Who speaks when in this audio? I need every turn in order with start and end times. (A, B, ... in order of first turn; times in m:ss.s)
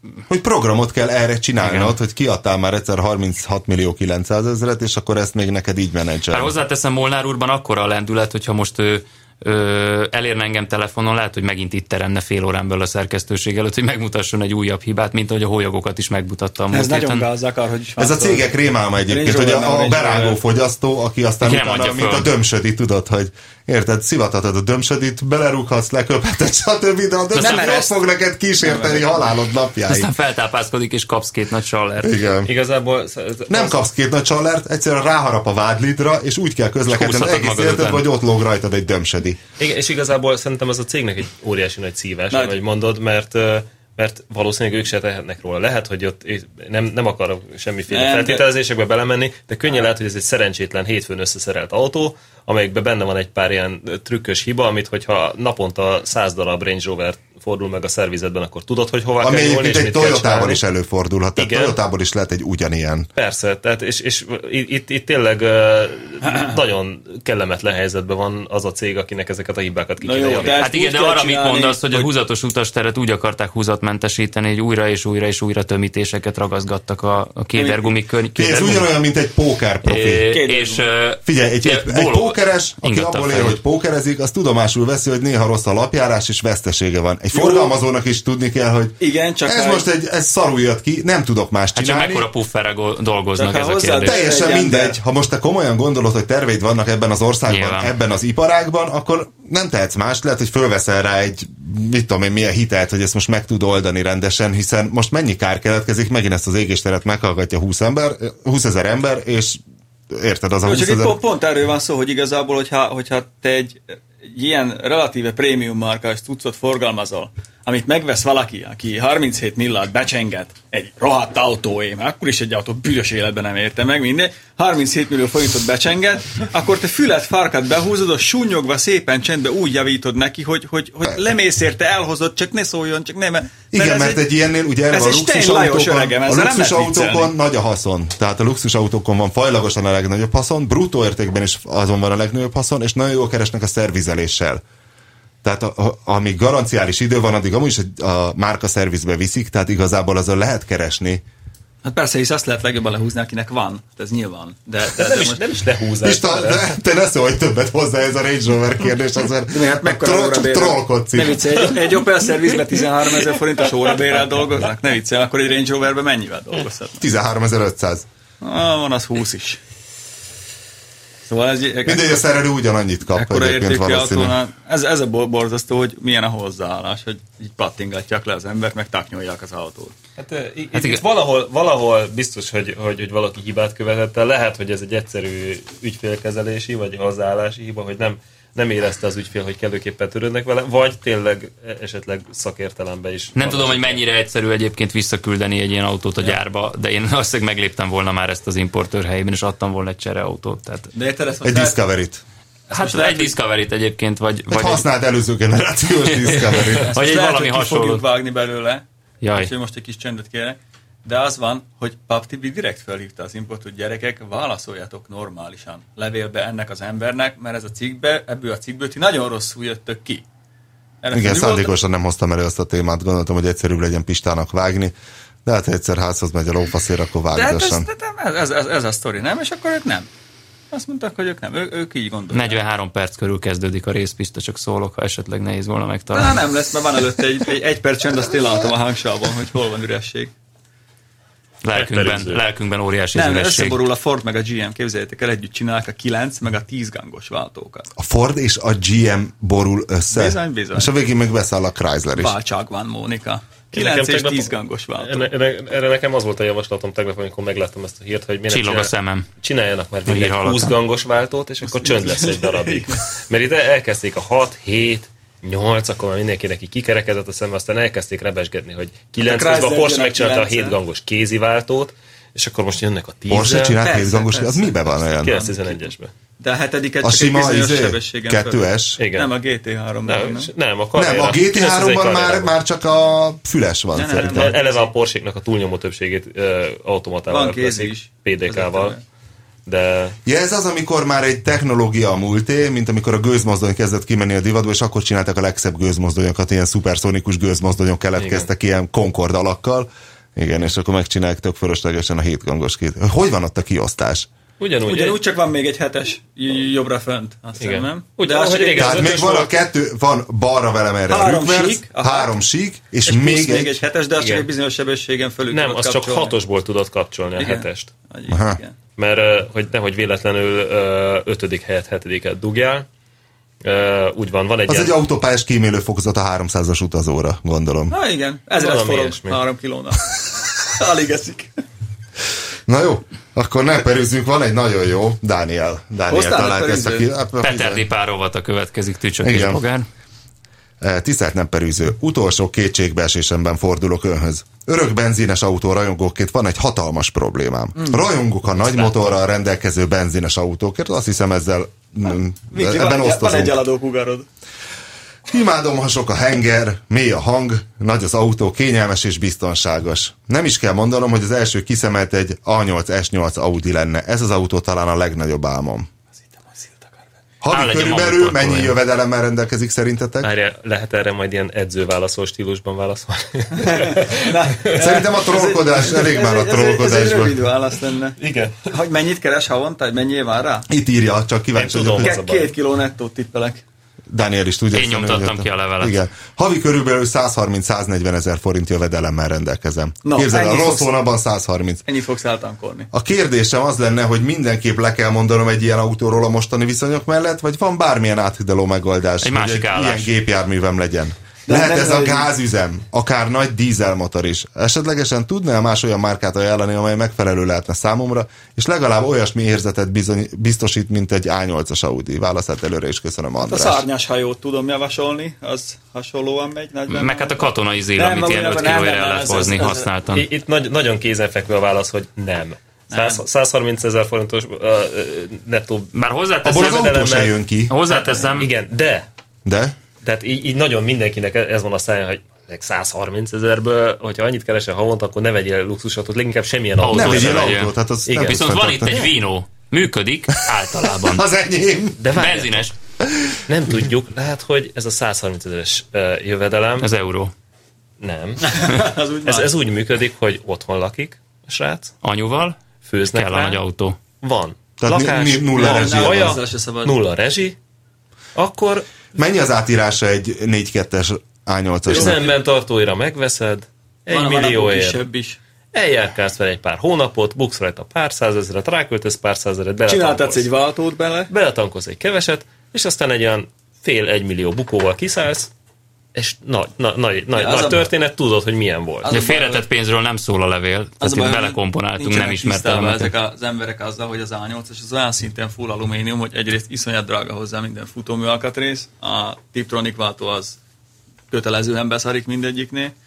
0:00.3-0:06.5 A
0:01.6-0:01.9 B
0:06.3-0:17.3 B
0:16.7-0:18.5 C
0:18.0-0:30.1 A
0:19.1-0:20.4 C
0:21.4-0:22.3 B
0:27.3-0:27.7 B
0:27.4-0:28.0 C
0:28.6-0:29.3 C
0:29.9-0:32.2 B
0:32.0-0:32.5 A
0:32.4-0:33.8 D
0:33.5-0:39.4 A
0:36.9-0:38.0 B
0:39.6-1:00.6 D
0:42.3-0:42.6 C
0:47.9-0:48.4 C
0:59.2-1:03.1 A
1:01.4-1:01.8 D
1:03.2-1:10.6 D
1:10.0-1:12.1 C
1:10.6-1:18.9 B
1:17.5-1:17.9 C
1:18.3-1:20.3 A
1:19.8-1:23.6 B
1:20.3-1:20.8 C
1:21.2-1:32.3 A
1:27.3-1:27.8 C
1:29.0-1:29.9 C
1:31.7-1:34.2 B
1:33.4-1:35.0 C
1:34.0-1:51.2 A
1:37.5-1:37.9 B
1:50.6-2:14.2 C
2:13.7-2:24.6 A
2:14.9-2:17.3 C
2:25.4-2:31.2 A
2:31.8-2:35.4 C
2:34.9-2:36.7 D
2:36.0-2:41.6 A
2:39.5-2:47.0 C
2:47.0-2:48.0 A
2:48.4-2:49.6 C
2:51.2-2:52.2 C
2:51.8-2:54.4 A
2:53.1-2:59.9 C
3:00.2-3:14.0 D
3:00.7-3:01.0 B
3:13.3-3:20.9 B
3:20.9-3:21.8 C
3:21.4-3:22.2 A
3:22.7-3:23.3 C
3:22.7-3:24.8 B
3:24.5-3:27.0 A
3:26.2-3:28.0 B
3:26.8-3:40.2 C
3:29.2-3:29.5 B
3:41.0-3:41.7 C
3:41.1-3:44.9 A
3:45.4-3:47.9 A
3:47.3-3:50.1 C
3:50.7-3:52.6 C
3:52.3-3:56.4 B
3:56.1-4:00.3 C
4:01.6-4:03.8 B
4:01.7-4:02.4 D
4:03.1-4:07.9 C
4:08.0-4:12.4 A
4:10.1-4:10.9 C
4:12.2-4:15.3 C
4:13.7-4:33.8 D
4:18.5-4:19.3 B
4:20.1-4:20.7 B
4:21.6-4:23.0 C
4:29.2-4:30.8 C
4:33.3-4:35.4 A
4:33.8-4:35.8 C
4:35.1-4:36.1 D
4:36.4-4:40.5 C
4:37.0-4:39.0 A
4:39.0-4:39.3 D
4:40.0-4:42.5 D
4:40.9-4:44.5 A
4:43.9-4:44.9 C
4:44.1-4:49.0 D
4:47.3-4:49.0 C
4:49.6-4:50.2 D
4:50.2-5:04.3 A
4:58.2-4:58.5 D
5:04.6-5:05.2 D
5:04.8-5:09.3 C
5:07.6-5:09.5 D
5:08.8-5:13.8 A
5:11.1-5:12.3 C
5:13.0-5:16.3 C
5:14.2-5:14.5 D
5:15.5-5:17.9 D
5:17.4-5:18.8 C
5:18.3-5:18.6 A
5:19.0-5:22.8 D
5:23.6-5:25.0 D
5:24.7-5:27.9 A
5:27.9-5:31.5 C
5:28.6-5:29.4 D
5:32.7-5:37.8 A
5:36.1-5:37.1 C
5:37.4-5:39.9 B
5:39.2-5:39.6 A
5:40.8-5:53.6 A
5:52.5-5:54.3 C
5:55.3-6:05.9 A
6:06.6-6:06.8 C
6:07.4-6:10.3 A
6:07.5-6:08.7 B
6:10.2-6:14.8 D
6:13.5-6:20.7 C
6:14.7-6:17.4 A
6:18.2-6:18.6 D
6:20.7-6:22.2 A
6:21.5-6:22.5 D
6:22.0-6:23.6 C
6:24.1-6:31.8 A
6:24.7-6:25.9 B
6:30.0-6:30.9 C
6:31.8-6:32.9 C
6:32.9-6:53.8 A
6:39.2-6:40.1 B
6:41.5-6:42.3 C
6:53.4-6:59.9 C
6:56.9-7:00.2 B
7:00.1-7:05.9 D
7:02.9-7:03.2 C
7:05.9-7:07.0 B
7:06.4-7:07.7 A
7:06.4-7:07.3 D
7:07.7-7:08.5 B
7:07.9-7:09.0 D
7:09.4-7:09.7 A
7:10.0-7:18.4 D
7:16.8-7:21.2 B
7:16.9-7:19.1 A
7:20.8-7:22.2 A
7:22.0-7:22.7 D
7:22.1-7:22.7 B
7:23.1-7:23.3 A
7:23.5-7:26.9 D
7:26.8-7:27.3 B
7:28.0-7:31.9 D
7:28.4-7:29.5 C
7:32.0-7:32.6 B
7:32.8-7:33.6 D
7:33.1-7:34.0 B
7:34.2-7:37.6 D
7:34.8-7:36.4 A
7:35.5-7:37.0 C
7:38.3-7:38.8 D
7:39.1-7:42.2 A
7:41.9-7:45.0 D
7:41.9-7:42.3 C
7:44.1-7:45.4 C
7:45.7-7:50.5 D
7:49.9-7:51.3 C
7:51.3-7:55.5 D
7:56.1-7:59.1 D
7:57.3-7:57.9 C
7:59.0-7:59.6 C
7:59.1-8:03.1 B
8:01.0-8:10.6 C
8:11.3-8:12.9 C